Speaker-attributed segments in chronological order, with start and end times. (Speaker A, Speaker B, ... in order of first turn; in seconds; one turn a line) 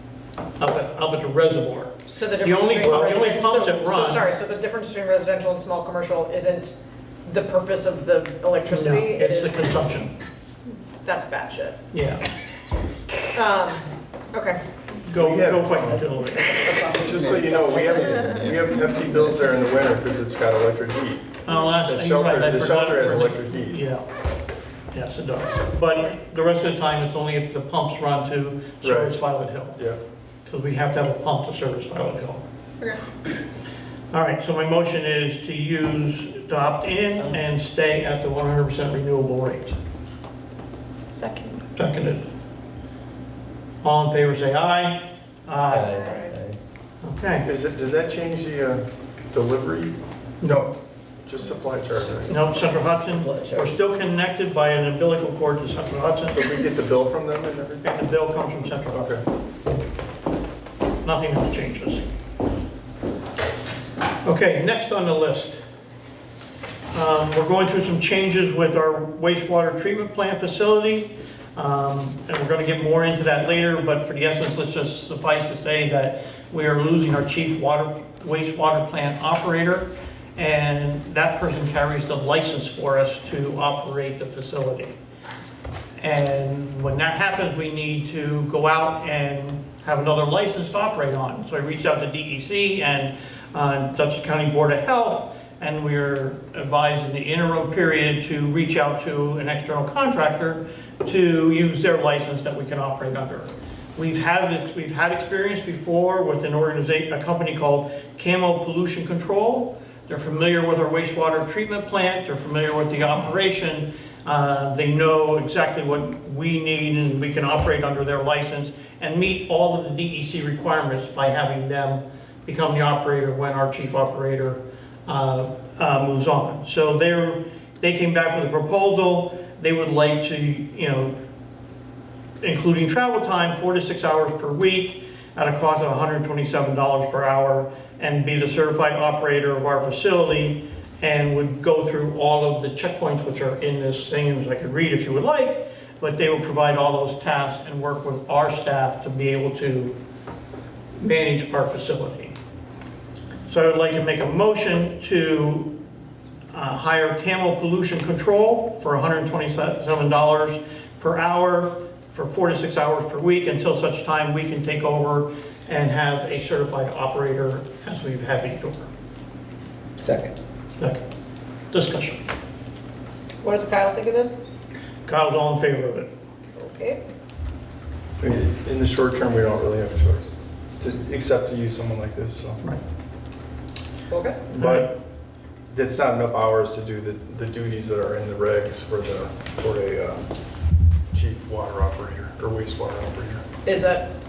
Speaker A: 0.6-4.2
Speaker B: 2.1-9.8
Speaker A: 8.7-10.1
Speaker B: 11.0-11.8
Speaker A: 11.9-12.3
Speaker B: 13.3-14.6
Speaker A: 15.0-16.7
Speaker C: 15.1-16.0
Speaker D: 16.6-19.5
Speaker C: 16.6-21.3
Speaker A: 21.4-24.0
Speaker C: 21.8-23.8
Speaker A: 24.9-29.8
Speaker C: 28.8-29.2
Speaker A: 30.5-32.4
Speaker B: 32.8-33.1
Speaker A: 34.1-39.8
Speaker B: 41.1-41.6
Speaker A: 41.7-42.2
Speaker A: 43.8-46.0
Speaker D: 45.6-46.6
Speaker B: 45.9-46.3
Speaker A: 47.0-47.5
Speaker C: 47.4-52.5
Speaker A: 50.4-50.7
Speaker D: 52.0-53.8
Speaker A: 52.3-56.4
Speaker C: 56.3-57.9
Speaker A: 57.8-59.1
Speaker C: 58.9-59.2
Speaker A: 61.0-62.1
Speaker A: 64.2-65.6
Speaker A: 66.9-85.0
Speaker A: 86.0-131.2
Speaker A: 132.4-149.9
Speaker A: 151.0-152.3
Speaker A: 153.5-155.7
Speaker A: 156.5-168.9
Speaker D: 170.0-170.3
Speaker A: 171.7-172.2
Speaker B: 173.4-174.4
Speaker A: 175.1-176.1
Speaker B: 176.5-177.0
Speaker C: 178.2-182.6
Speaker B: 184.1-184.5
Speaker C: 184.5-185.0
Speaker A: 184.5-184.9
Speaker C: 185.7-190.3
Speaker C: 191.1-193.4
Speaker B: 193.6-194.1